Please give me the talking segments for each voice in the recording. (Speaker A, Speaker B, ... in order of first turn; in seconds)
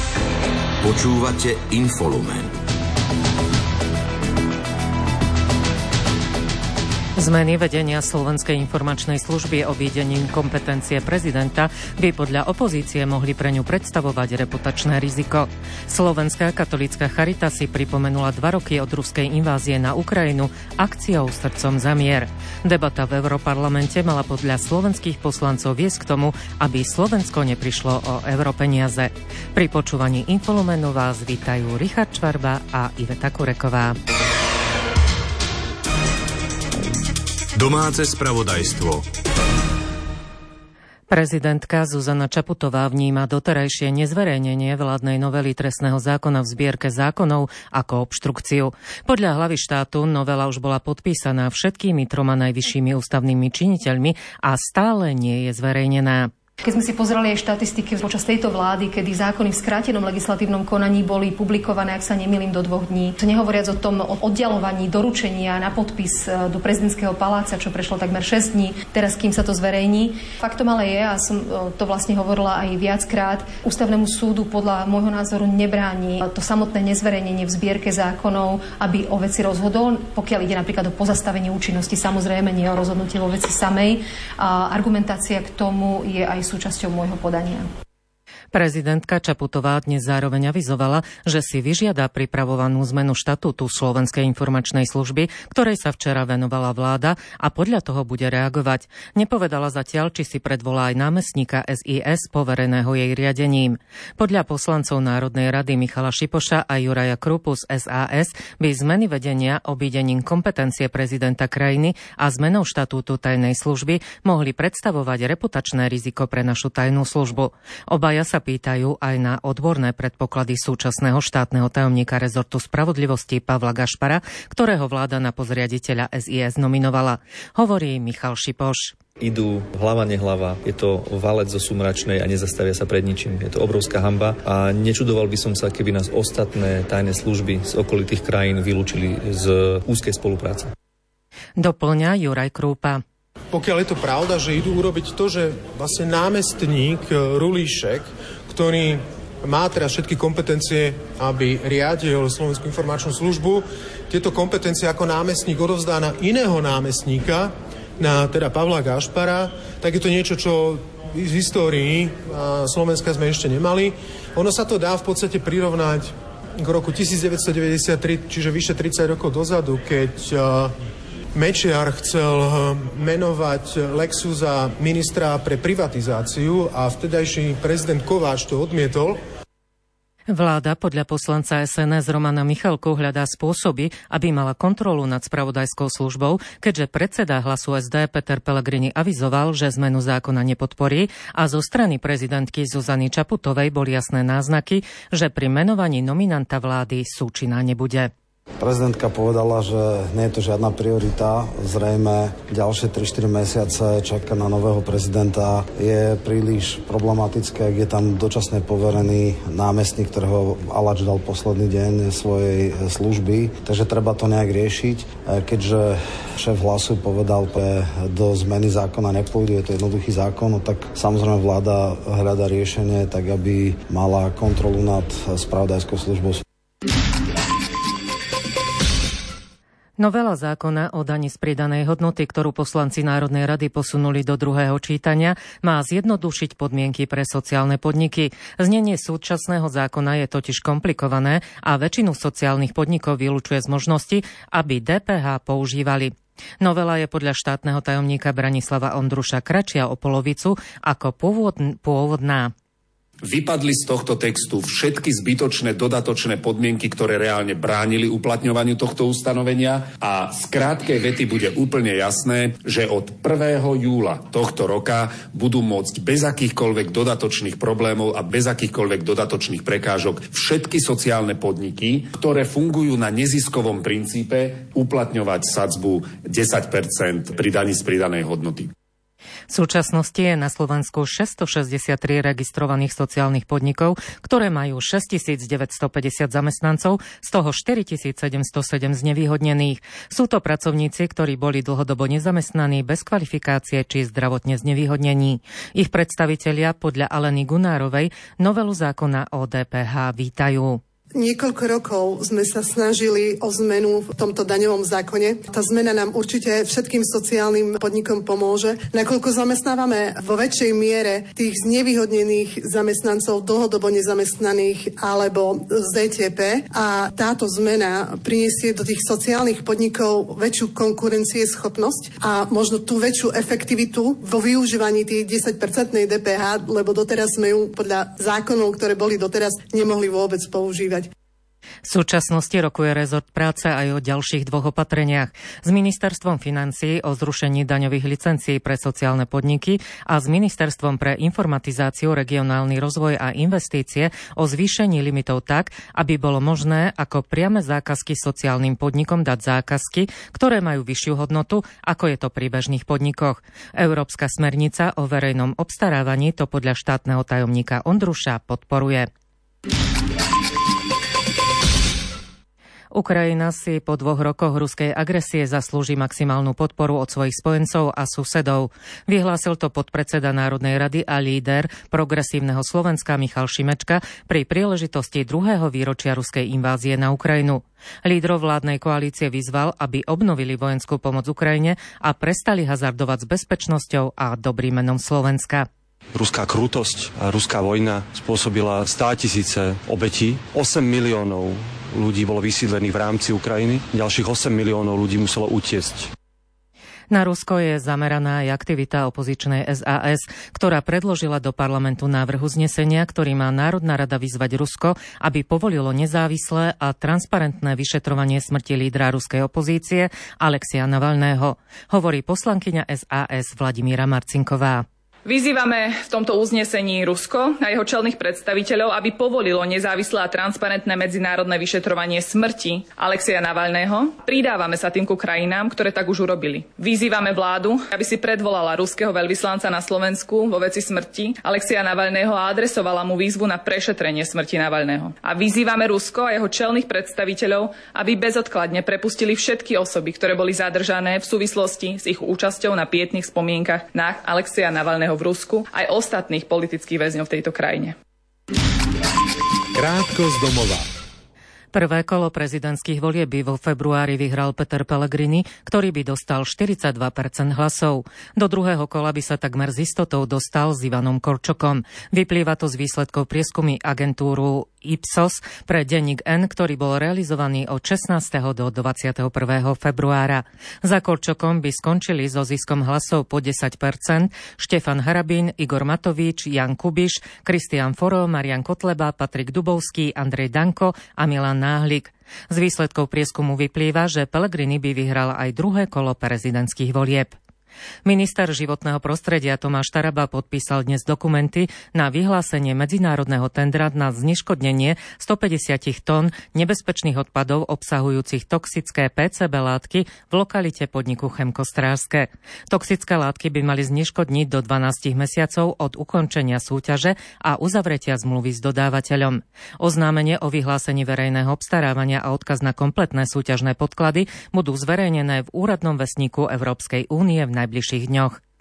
Speaker A: 0.8-2.5, 37.5-39.0
Speaker B: 7.2-34.0, 41.1-56.3, 88.5-129.0, 141.6-143.0, 180.3-198.1, 230.0-252.5, 279.5-300.8, 331.8-359.1, 362.9-385.7, 397.1-414.9, 451.7-487.4, 488.0-518.4
Speaker C: 56.6-87.7
Speaker D: 129.2-140.7
Speaker E: 143.5-170.7, 171.3-179.2
Speaker F: 198.6-226.4
Speaker G: 253.2-278.7
Speaker H: 301.1-331.1
Speaker I: 386.1-396.1
Speaker J: 415.2-447.9